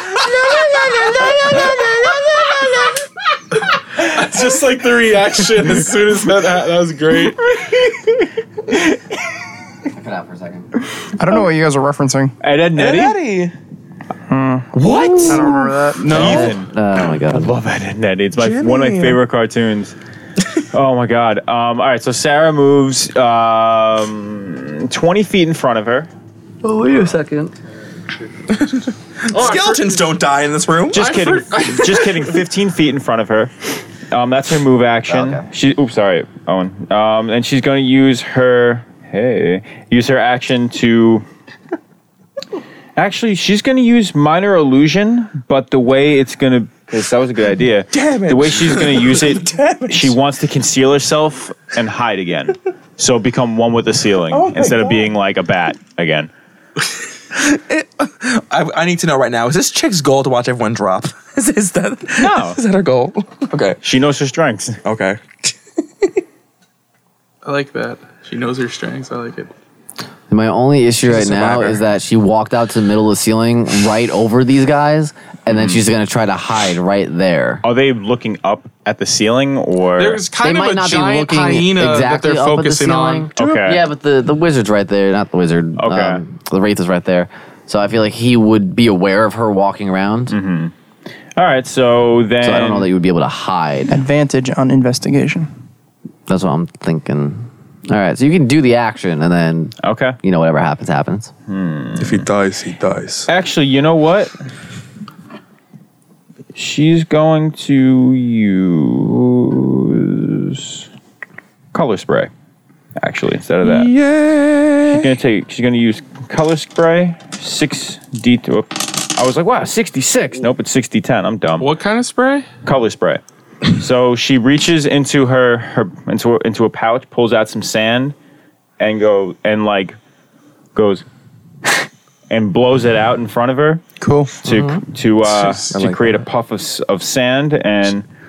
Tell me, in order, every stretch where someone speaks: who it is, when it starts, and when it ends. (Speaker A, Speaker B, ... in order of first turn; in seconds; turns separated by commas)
Speaker A: 3.7-7.5, Speaker B: 7.6-8.1, Speaker C: 9.9-10.7, Speaker D: 11.2-12.3, Speaker B: 12.4-13.2, Speaker E: 12.7-13.5, Speaker D: 14.3-14.7, Speaker E: 14.8-16.4, Speaker B: 14.8-15.3, Speaker D: 15.2-16.4, Speaker A: 16.0-16.5, Speaker B: 16.1-16.7, Speaker C: 16.1-17.5, Speaker B: 17.3-19.9, Speaker E: 18.4-19.2, Speaker B: 20.7-26.1, Speaker C: 26.6-27.5, Speaker E: 28.5-31.1, Speaker A: 29.3-30.0, Speaker B: 30.9-41.2, Speaker A: 30.9-32.4, Speaker C: 35.1-35.5, Speaker B: 43.0-56.3, Speaker E: 47.9-50.1, Speaker E: 54.3-55.1, Speaker E: 57.3-63.8, Speaker B: 62.2-62.6, Speaker B: 63.8-64.8, Speaker E: 64.8-66.1, Speaker A: 67.4-69.5, Speaker C: 70.3-77.6, Speaker E: 71.0-71.8, Speaker B: 75.5-75.8, Speaker B: 77.6-80.2, Speaker A: 80.0-83.3, Speaker C: 80.4-90.3, Speaker B: 83.3-83.8, Speaker B: 85.8-86.2, Speaker B: 90.3-90.7, Speaker B: 91.3-92.9, Speaker C: 92.4-94.0, Speaker D: 93.9-95.5, Speaker C: 96.3-101.3, Speaker B: 99.8-100.2, Speaker B: 101.5-102.2, Speaker E: 102.0-103.3, Speaker B: 103.3-104.3, Speaker B: 106.5-110.8, Speaker B: 111.7-112.3, Speaker B: 113.0-113.9, Speaker E: 113.6-115.1, Speaker B: 114.8-121.7, Speaker A: 121.6-122.5, Speaker B: 122.6-128.1, Speaker B: 128.8-129.9, Speaker B: 130.8-131.0, Speaker B: 131.7-133.8, Speaker D: 134.0-134.3, Speaker B: 134.4-138.0, Speaker C: 134.4-134.8, Speaker E: 135.2-136.2